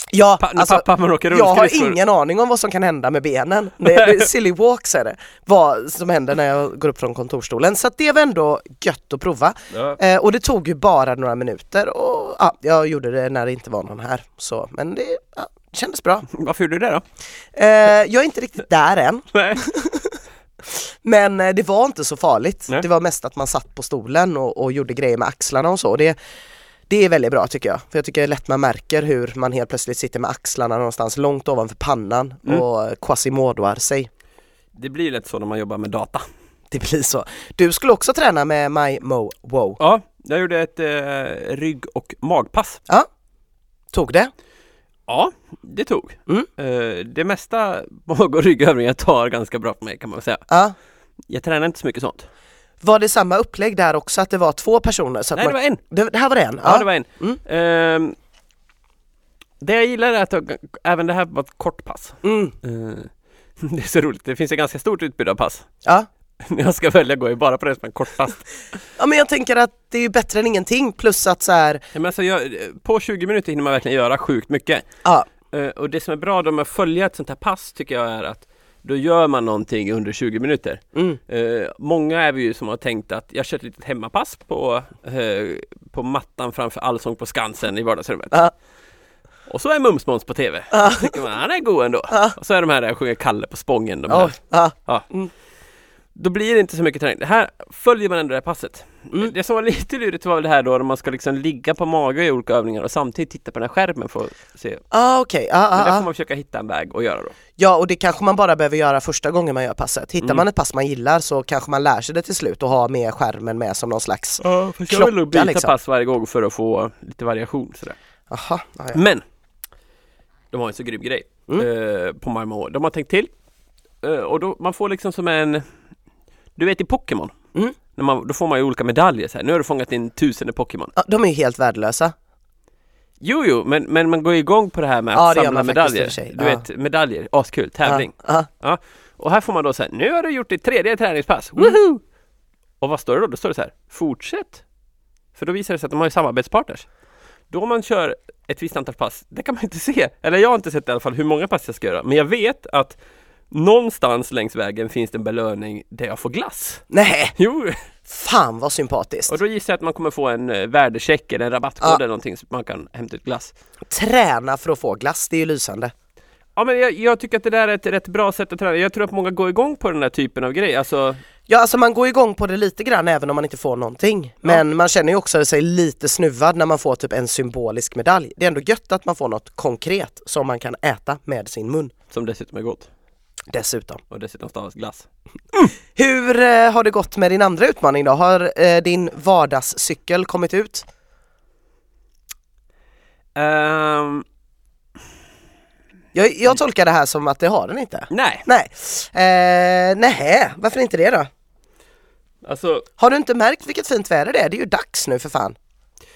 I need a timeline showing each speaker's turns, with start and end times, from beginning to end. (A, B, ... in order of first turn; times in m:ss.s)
0:00.1-0:16.3 A
0:00.4-0:02.0 B
0:03.8-0:04.3 B
0:09.7-0:10.0 B
0:16.3-0:17.0 B
0:17.5-0:26.2 A
0:19.3-0:19.6 B
0:26.9-0:34.1 A
0:34.7-0:36.2 B
0:36.7-0:39.8 A
0:39.8-0:42.8 B
0:43.9-0:44.3 A
0:45.1-0:50.4 B
0:50.5-0:50.7 A
0:51.3-0:52.3 B
0:52.8-0:57.4 A
0:55.3-0:55.8 B
0:56.6-0:58.1 B
0:59.6-1:05.6 B
1:02.2-1:02.5 A
1:06.4-1:08.4 B
1:09.0-1:11.8 A
1:11.9-1:14.8 B
1:15.5-1:28.4 B
1:29.5-1:34.3 B
1:30.7-1:31.1 A
1:32.1-1:32.4 A
1:34.1-1:35.3 A
1:36.1-1:44.8 B
1:44.9-1:46.1 A
1:45.7-1:47.3 B
1:47.6-1:55.7 A
1:54.4-1:58.0 B
1:58.3-1:59.0 A
1:58.9-1:59.2 B
2:00.5-2:03.3 B
2:04.0-2:05.6 B
2:06.6-2:07.3 B
2:08.0-2:10.9 B
2:11.0-2:12.1 A
2:13.2-2:22.0 B
2:15.1-2:16.6 A
2:17.8-2:18.5 A
2:22.8-2:24.6 B
2:25.4-2:26.8 B
2:27.5-2:33.0 B
2:33.5-2:36.8 B
2:36.9-2:37.3 A
2:37.4-2:37.8 B
2:38.1-2:39.3 A
2:39.3-2:43.5 B
2:43.9-2:45.9 A
2:46.6-2:51.2 B
2:51.5-3:01.9 A
3:02.1-3:02.9 B
3:03.5-3:04.0 A
3:04.1-3:05.1 B
3:05.9-3:10.8 A
3:13.4-3:14.2 B
3:16.1-3:21.3 A
3:18.1-3:18.4 B
3:22.4-3:22.8 B
3:23.0-3:25.6 A